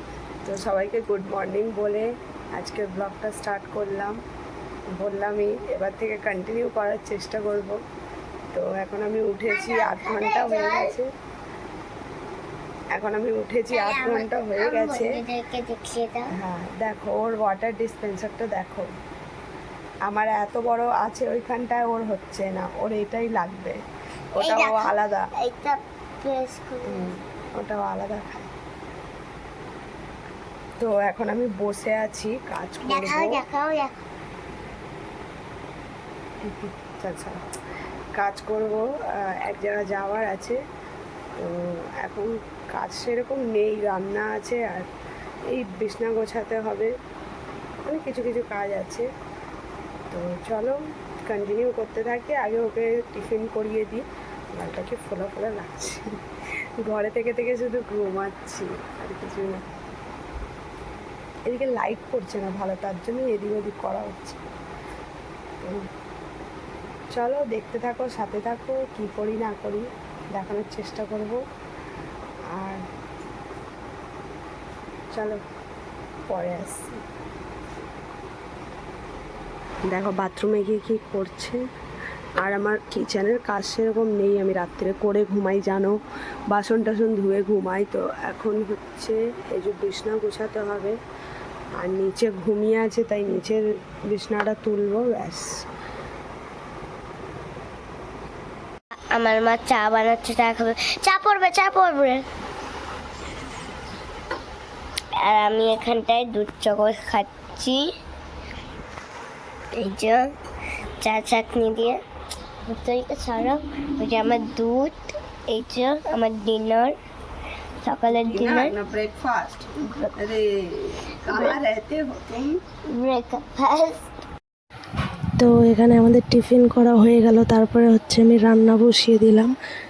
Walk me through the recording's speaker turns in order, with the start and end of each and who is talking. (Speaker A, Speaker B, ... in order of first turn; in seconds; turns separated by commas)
Speaker A: 0.4-4.2, Speaker A: 5.0-7.8, Speaker A: 8.5-11.1, Speaker B: 9.5-10.9, Speaker A: 12.9-15.2, Speaker B: 13.7-16.3, Speaker A: 16.3-18.9, Speaker A: 20.1-23.8, Speaker A: 24.4-25.3, Speaker B: 24.4-27.1, Speaker A: 26.9-28.5, Speaker A: 30.8-33.4, Speaker B: 32.8-33.9, Speaker A: 36.4-37.4, Speaker A: 38.1-40.6, Speaker A: 41.4-44.8, Speaker A: 45.5-46.9, Speaker A: 47.9-49.1, Speaker A: 50.1-56.1, Speaker A: 56.8-59.6, Speaker A: 61.5-64.5, Speaker A: 67.1-71.4, Speaker A: 72.5-72.8, Speaker A: 75.1-75.4, Speaker A: 76.3-77.0, Speaker A: 79.9-81.6, Speaker A: 82.4-86.0, Speaker A: 86.5-91.0, Speaker A: 91.8-95.6, Speaker B: 99.1-102.2, Speaker B: 105.2-107.9, Speaker B: 109.7-110.3, Speaker B: 111.0-112.0, Speaker B: 112.7-116.9, Speaker B: 117.8-118.7, Speaker A: 118.1-122.6, Speaker B: 121.3-121.6, Speaker B: 122.9-124.0, Speaker C: 125.4-129.5